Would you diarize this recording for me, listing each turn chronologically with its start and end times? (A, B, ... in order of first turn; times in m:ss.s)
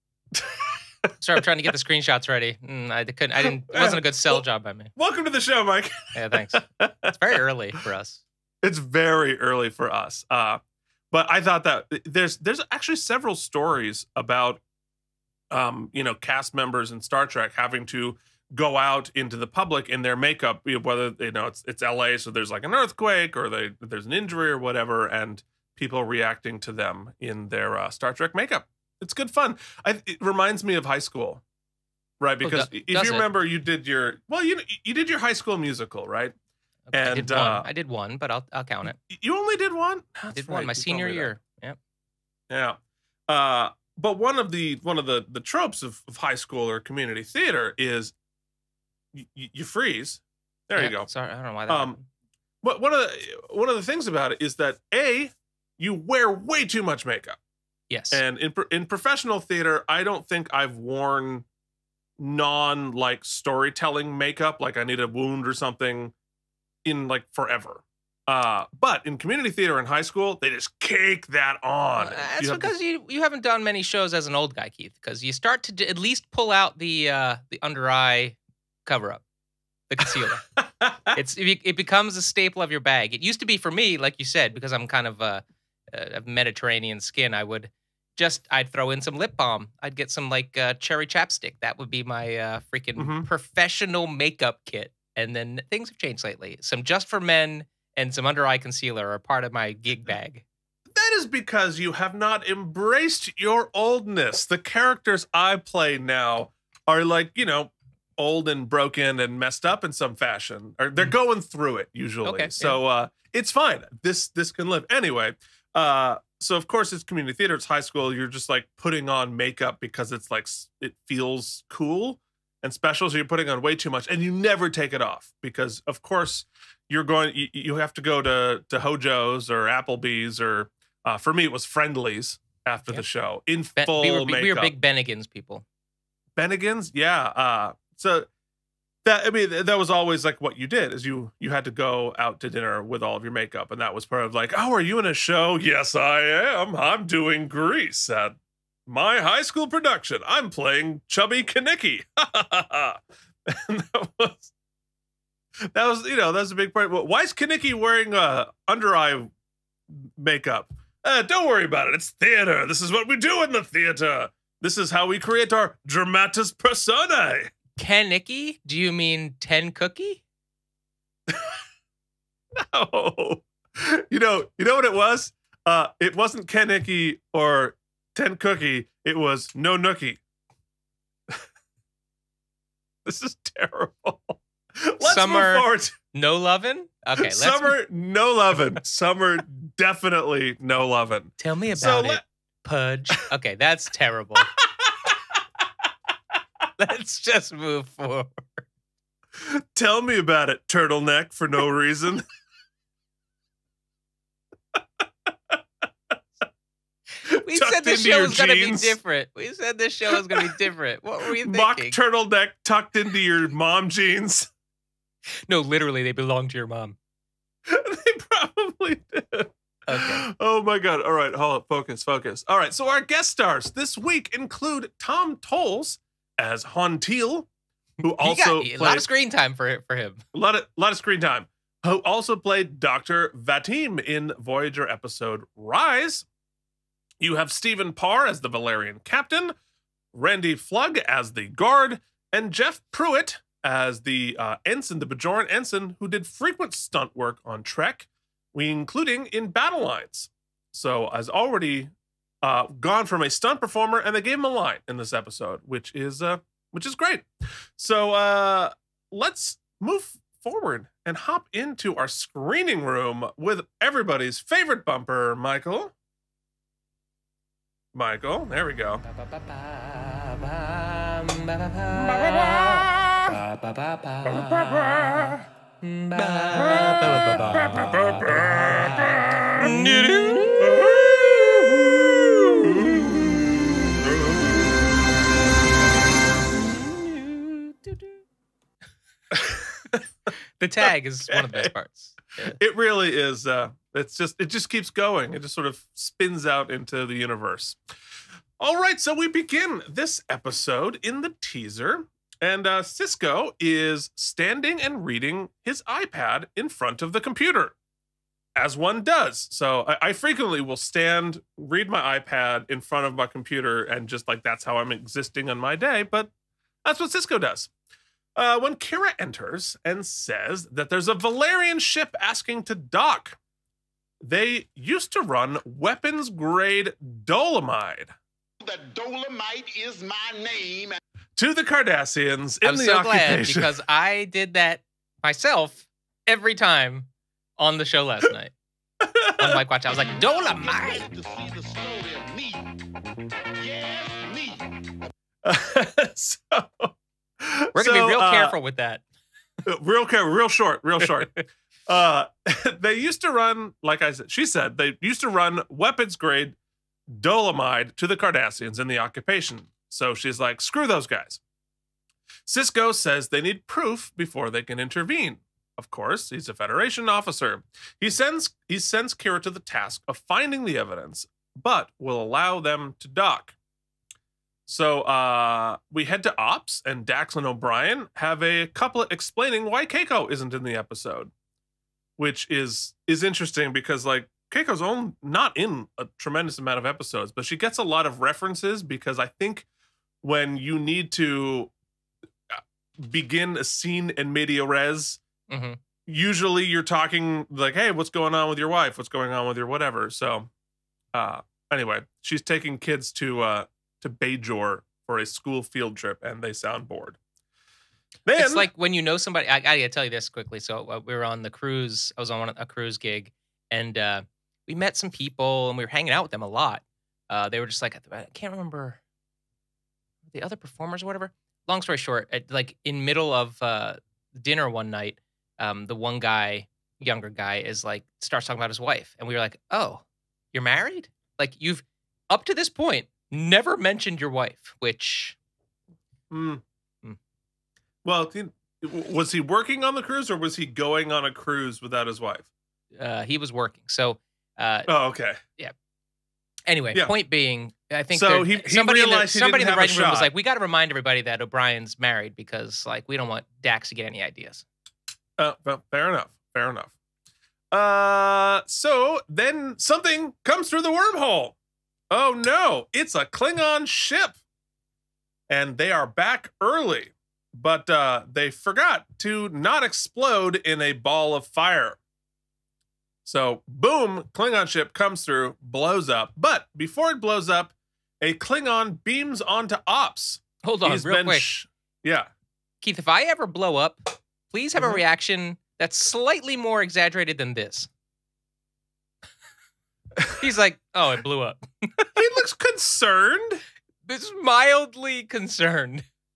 0:00.3-0:01.4 A
0:01.2-0:04.9 B
0:03.4-0:04.4 A
0:05.0-0:07.4 A
0:06.1-0:08.2 B
0:08.6-0:14.6 A
0:15.5-0:31.4 A
0:32.2-0:36.3 A
0:32.4-0:33.3 B
0:36.9-0:39.0 B
0:36.9-0:37.7 A
0:39.0-0:41.3 A
0:40.3-0:41.8 B
0:42.5-0:48.1 A
0:49.1-0:51.1 A
0:50.7-0:52.0 B
0:51.7-0:52.0 A
0:52.6-0:57.4 A
0:57.9-0:58.2 B
0:58.1-1:01.4 A
1:02.2-1:06.1 A
1:06.8-1:12.7 A
1:12.0-1:19.2 B
1:19.9-1:20.4 B
1:20.0-1:21.2 A
1:21.1-1:40.4 B
1:33.0-1:33.3 A
1:40.9-2:14.7 A
1:52.2-1:52.8 B
2:13.8-2:15.6 B
2:16.4-2:18.3 A
2:19.0-2:34.5 A
2:35.7-2:39.3 A
2:39.9-2:47.5 A
2:47.8-2:50.2 B
2:51.3-2:51.6 A
2:52.5-3:00.2 A
3:03.0-3:06.0 A
3:05.0-3:07.8 B
3:07.2-3:12.2 A
3:11.4-3:14.5 B
3:14.6-3:15.4 A
3:16.8-3:18.6 B
3:19.4-3:22.2 A
3:27.2-3:32.0 B
3:27.3-3:29.0 A
3:30.1-3:30.5 A
3:31.4-3:34.5 A
3:35.5-3:37.0 B
3:37.7-3:47.5 A
3:39.9-3:40.3 B
3:48.0-3:49.1 A
3:48.1-3:50.2 B
3:50.3-3:56.3 A
3:57.2-3:59.5 A
4:00.1-4:25.9 A
4:27.9-4:29.0 A
4:29.1-4:41.0 B
4:32.0-4:33.4 A
4:34.2-4:35.4 A
4:36.2-4:43.4 A
4:42.6-4:43.2 B
4:44.0-4:44.5 A
4:46.7-4:48.0 B
4:49.3-4:50.0 A
4:50.6-4:52.6 B
4:51.3-4:51.7 A
4:52.5-4:57.8 A
4:58.6-5:07.8 A
5:08.6-5:16.3 A
5:16.8-5:17.7 A
5:18.4-5:23.4 A
5:24.2-5:28.1 A
5:28.6-5:31.0 C
5:31.4-5:33.7 A
5:32.6-5:38.5 B
5:39.0-5:39.6 A
5:39.4-5:41.0 B
5:40.1-5:42.7 C
5:43.6-5:44.9 C
5:45.4-5:48.6 A
5:47.8-5:49.0 B
5:49.6-5:56.6 A
5:57.1-6:01.4 A
6:02.5-6:13.6 A
6:14.7-6:21.3 A
6:22.2-6:29.7 A
6:30.2-6:31.7 A
6:32.5-6:35.2 A
6:35.5-6:35.8 B
6:36.1-6:40.5 A
6:41.1-6:47.2 A
6:48.3-6:48.7 A
6:48.4-6:59.0 B
7:00.3-7:15.4 B
7:16.3-7:16.6 A
7:18.0-7:22.5 A
7:23.0-7:24.9 B
7:24.9-7:25.4 A
7:26.7-7:34.6 B
7:28.1-7:30.3 A
7:35.4-7:36.9 A
7:37.7-7:41.6 A
7:42.1-7:44.4 A
7:45.5-7:52.0 A
7:53.2-8:02.3 A
8:00.6-8:01.5 B
8:02.8-8:07.9 B
8:04.8-8:05.0 A
8:10.4-8:12.1 B
8:12.2-8:13.6 A
8:14.1-8:16.0 B